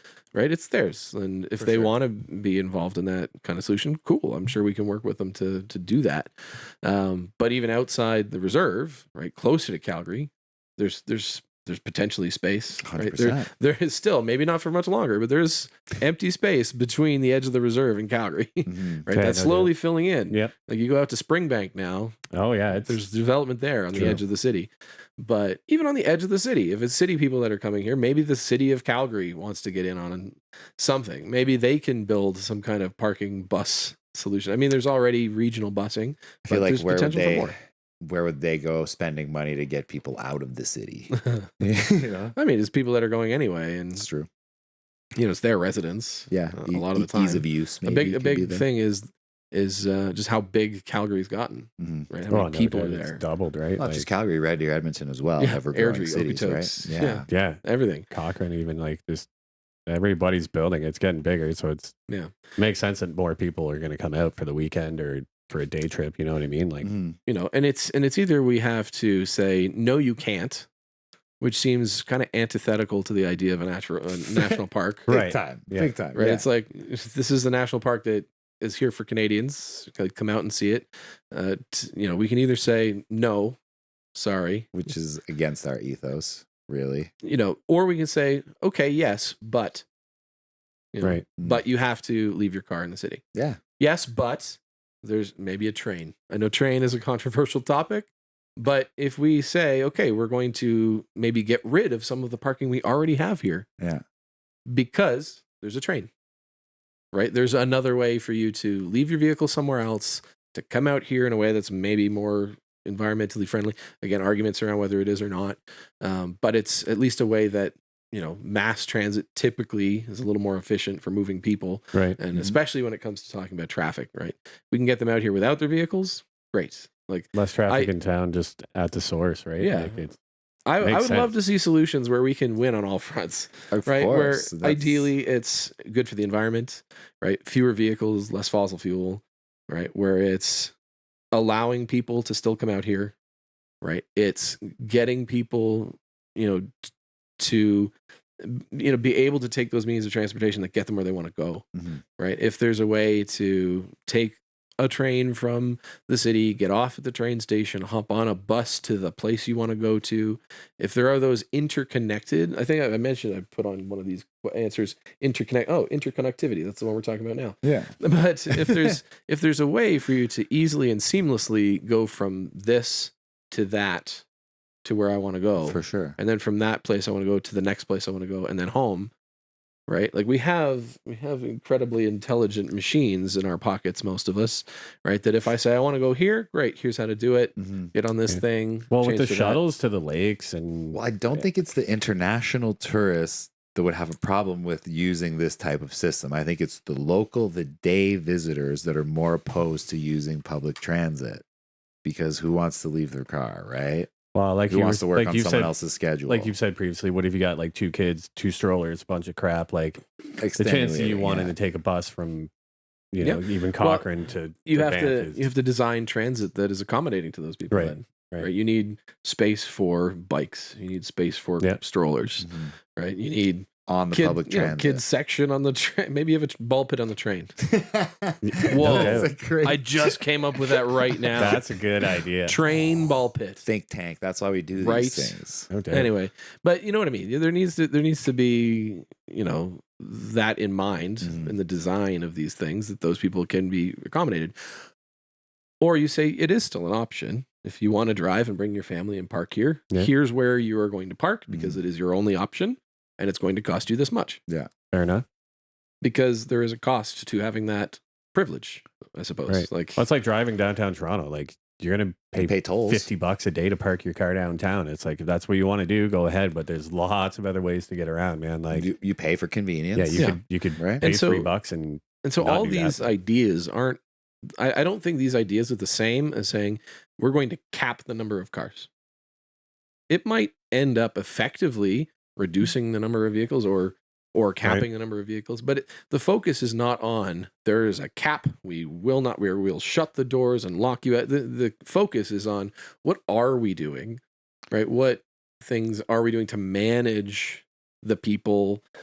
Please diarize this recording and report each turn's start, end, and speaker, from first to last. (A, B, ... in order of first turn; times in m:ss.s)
0:00.3-0:06.3 A
0:01.6-0:01.9 B
0:06.8-0:37.5 A
0:12.8-0:13.5 B
0:18.7-0:19.0 B
0:19.1-0:19.8 C
0:22.3-0:23.0 C
0:23.9-0:24.2 C
0:36.5-0:42.3 B
0:41.2-0:41.4 A
0:42.3-0:44.0 A
0:44.0-0:44.3 B
0:45.2-0:53.2 A
0:46.3-0:48.7 B
0:51.8-0:52.1 B
0:52.3-0:54.1 C
0:53.8-0:57.3 B
0:55.4-0:58.1 A
0:57.3-0:59.3 C
0:59.9-1:02.0 C
1:02.1-1:02.4 A
1:02.6-1:06.9 C
1:06.8-1:07.2 B
1:07.3-1:10.7 A
1:11.4-1:15.1 A
1:15.1-1:15.9 C
1:15.1-1:16.4 B
1:16.1-1:23.6 A
1:24.1-1:24.7 A
1:24.7-1:27.1 B
1:27.2-1:29.8 A
1:30.9-1:33.2 A
1:33.3-1:33.6 B
1:33.8-1:43.7 A
1:44.7-1:46.1 A
1:47.1-2:07.9 A
2:02.3-2:02.6 B
2:07.3-2:10.2 C
2:09.6-2:10.0 A
2:10.7-2:20.7 A
2:10.8-2:11.3 C
2:13.7-2:15.1 B
2:21.3-2:23.1 A
2:23.8-2:26.8 A
2:27.4-2:31.7 A
2:31.8-2:32.0 B
2:32.2-2:54.2 A
2:47.6-2:47.9 B
2:48.5-2:49.0 B
2:54.8-2:59.1 A
2:55.6-2:56.2 B
2:59.9-3:09.6 A
3:07.6-3:07.9 B
3:08.3-3:11.4 C
3:10.9-3:21.4 B
3:22.0-3:24.1 B
3:24.3-3:25.7 C
3:24.7-3:26.5 B
3:26.2-3:30.0 C
3:30.4-3:31.5 B
3:30.6-3:32.5 C
3:33.1-3:35.5 C
3:33.2-3:34.1 A
3:34.7-3:47.5 A
3:37.7-3:38.5 C
3:42.4-3:42.7 B
3:43.9-3:45.0 B
3:47.6-3:51.6 B
3:48.4-3:49.3 C
3:48.7-3:51.6 A
3:51.4-3:52.6 C
3:52.4-3:53.6 A
3:52.7-3:55.7 B
3:54.8-3:55.4 A
3:55.7-3:56.1 C
3:55.9-4:04.5 A
4:01.2-4:01.5 B
4:05.8-4:14.4 A
4:11.5-4:11.8 B
4:14.9-4:15.2 C
4:16.0-4:20.0 A
4:19.5-4:28.9 C
4:22.4-4:23.1 B
4:28.7-4:31.0 B
4:29.9-4:33.1 C
4:30.1-4:30.4 A
4:31.0-4:31.5 A
4:32.2-4:34.0 A
4:34.6-4:38.9 A
4:40.1-4:54.2 A
4:54.7-4:58.8 A